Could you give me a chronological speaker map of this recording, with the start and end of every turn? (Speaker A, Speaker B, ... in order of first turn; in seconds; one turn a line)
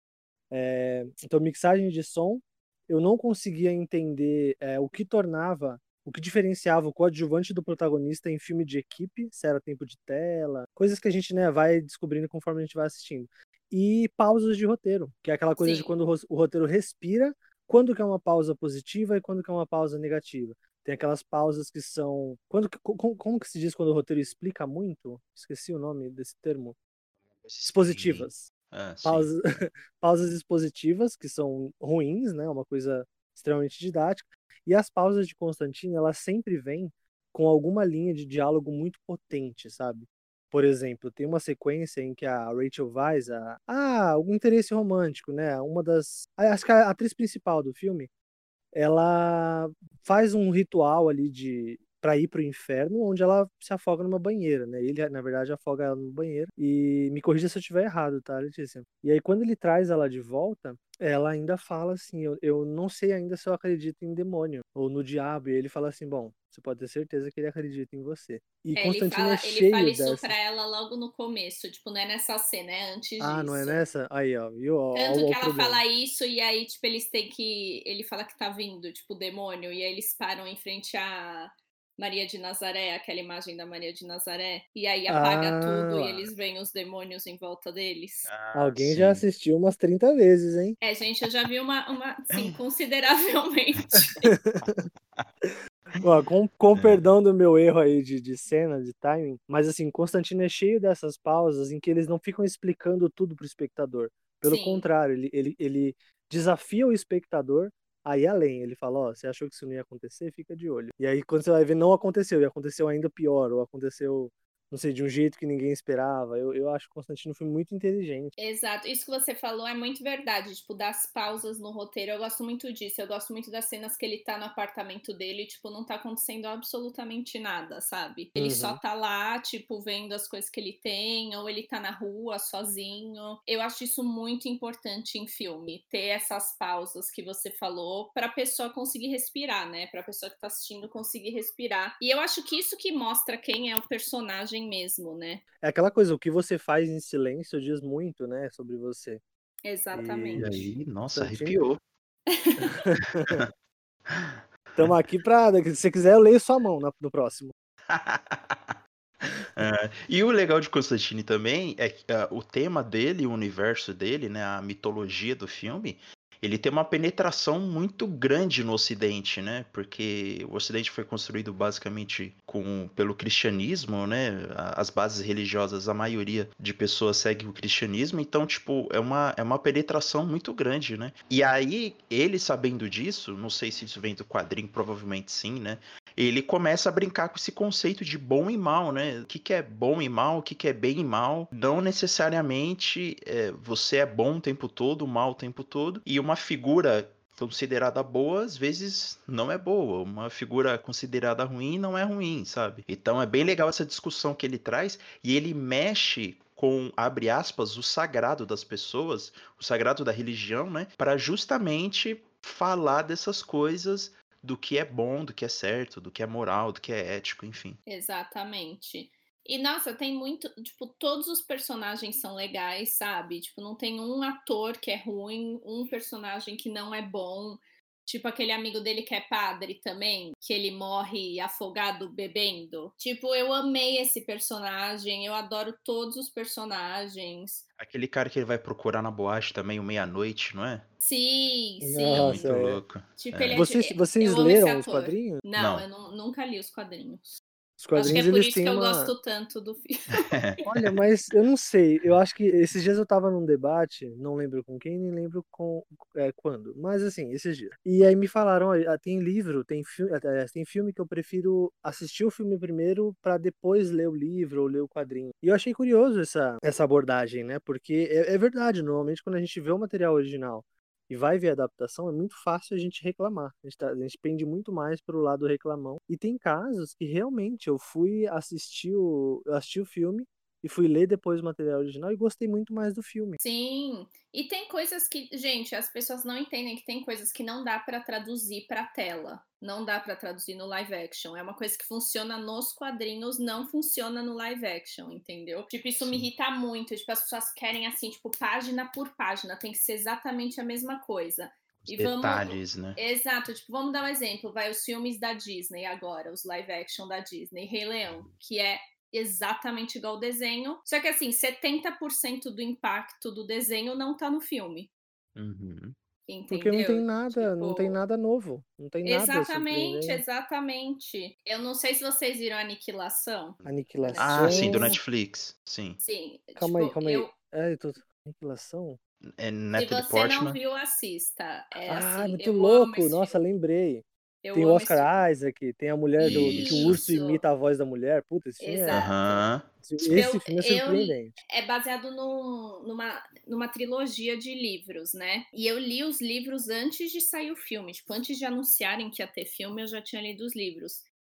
Speaker A: 0.5-26.8
Speaker B: 15.6-15.9
Speaker C: 27.4-29.3
Speaker A: 27.6-28.5
Speaker A: 29.0-48.1
Speaker A: 48.7-70.3
Speaker B: 68.8-73.8
Speaker A: 73.2-75.8
Speaker B: 74.9-88.3
Speaker A: 85.1-86.3
Speaker C: 88.2-89.2
Speaker A: 88.5-90.8
Speaker B: 90.8-94.3
Speaker A: 94.3-94.8
Speaker C: 94.6-95.3
Speaker A: 95.4-118.3
Speaker C: 96.7-97.1
Speaker B: 104.4-104.9
Speaker B: 118.4-145.4
Speaker A: 128.3-128.8
Speaker A: 145.6-149.2
Speaker B: 149.6-150.6
Speaker A: 149.9-151.6
Speaker C: 150.4-151.8
Speaker B: 152.3-152.8
Speaker A: 152.8-153.4
Speaker C: 153.2-153.5
Speaker C: 154.1-155.0
Speaker A: 154.8-157.5
Speaker C: 157.9-217.8
Speaker B: 217.9-237.6
Speaker C: 237.8-240.8
Speaker B: 241.0-242.5
Speaker A: 241.8-242.8
Speaker C: 242.1-243.6
Speaker B: 243.2-247.4
Speaker A: 243.5-245.4
Speaker C: 245.6-245.8
Speaker A: 247.8-249.1
Speaker B: 247.9-250.3
Speaker C: 250.1-250.9
Speaker A: 250.7-283.4
Speaker B: 283.4-314.9
Speaker C: 296.0-296.3
Speaker C: 301.8-303.0
Speaker C: 315.4-315.9
Speaker B: 316.3-318.0
Speaker A: 316.5-320.2
Speaker B: 319.0-325.0
Speaker A: 323.6-325.0
Speaker C: 324.2-326.0
Speaker B: 326.0-327.3
Speaker A: 326.6-329.0
Speaker C: 329.3-330.6
Speaker B: 329.7-333.4
Speaker A: 331.8-339.1
Speaker B: 334.4-335.2
Speaker B: 336.2-337.4
Speaker C: 336.2-337.0
Speaker B: 338.6-339.4
Speaker C: 338.9-340.3
Speaker A: 339.8-341.4
Speaker B: 340.1-351.1